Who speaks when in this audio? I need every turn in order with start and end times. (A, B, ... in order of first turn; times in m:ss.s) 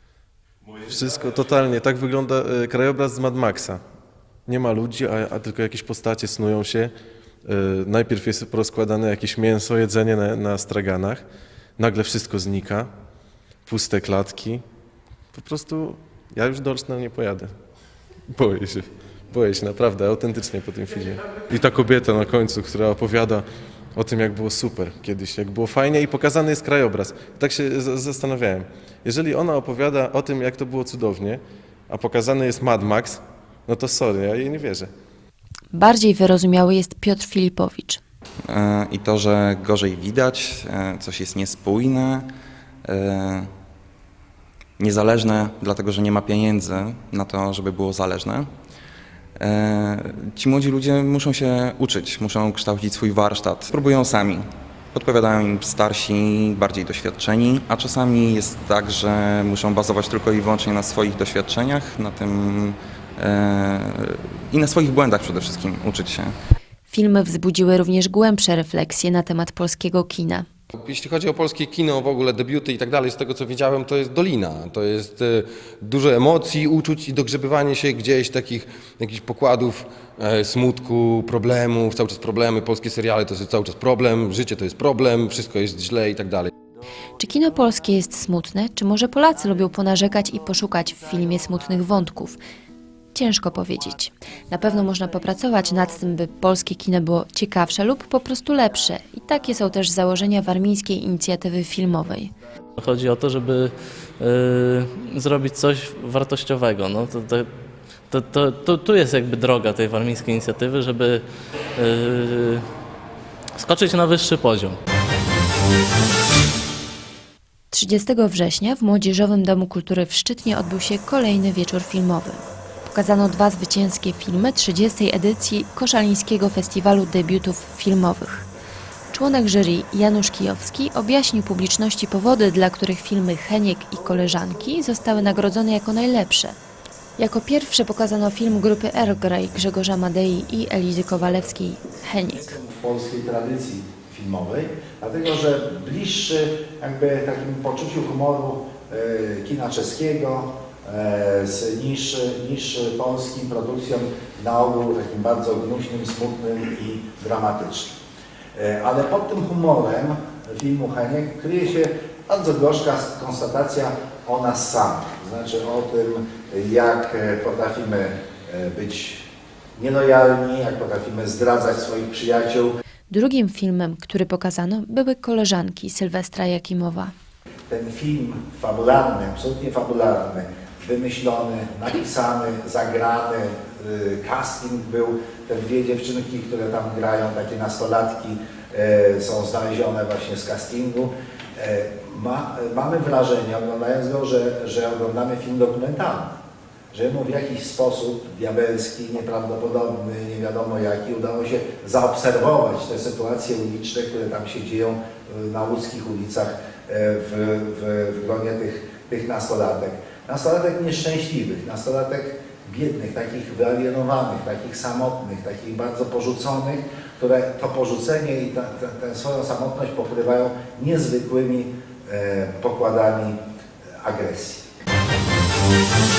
0:00.8-0:03.8 A
0:04.5-0:06.9 A
0:07.4-0:11.2 A
0:11.8-0:12.9 A
0:13.6-0:14.6 A
0:15.3-0:17.5 A
0:18.3-0:34.9 A
0:35.7-0:38.0 B
0:38.5-0:42.3 C
0:42.9-0:43.5 C
0:44.8-0:48.5 C
0:49.4-1:06.3 C
1:06.9-1:10.4 B
1:10.7-1:26.5 D
1:27.2-1:32.4 B
1:33.1-1:42.3 B
1:42.8-1:47.5 E
1:48.1-1:51.2 E
1:51.8-1:52.6 E
1:53.6-1:54.8 E
1:57.7-2:08.4 B
2:09.1-2:16.5 B
2:17.2-2:22.6 B
2:22.7-2:37.9 F
2:38.5-2:49.2 F
2:49.8-2:52.7 F
2:53.1-2:57.1 B
2:57.7-3:16.3 F
3:16.9-3:43.4 F
3:44.0-3:44.6 F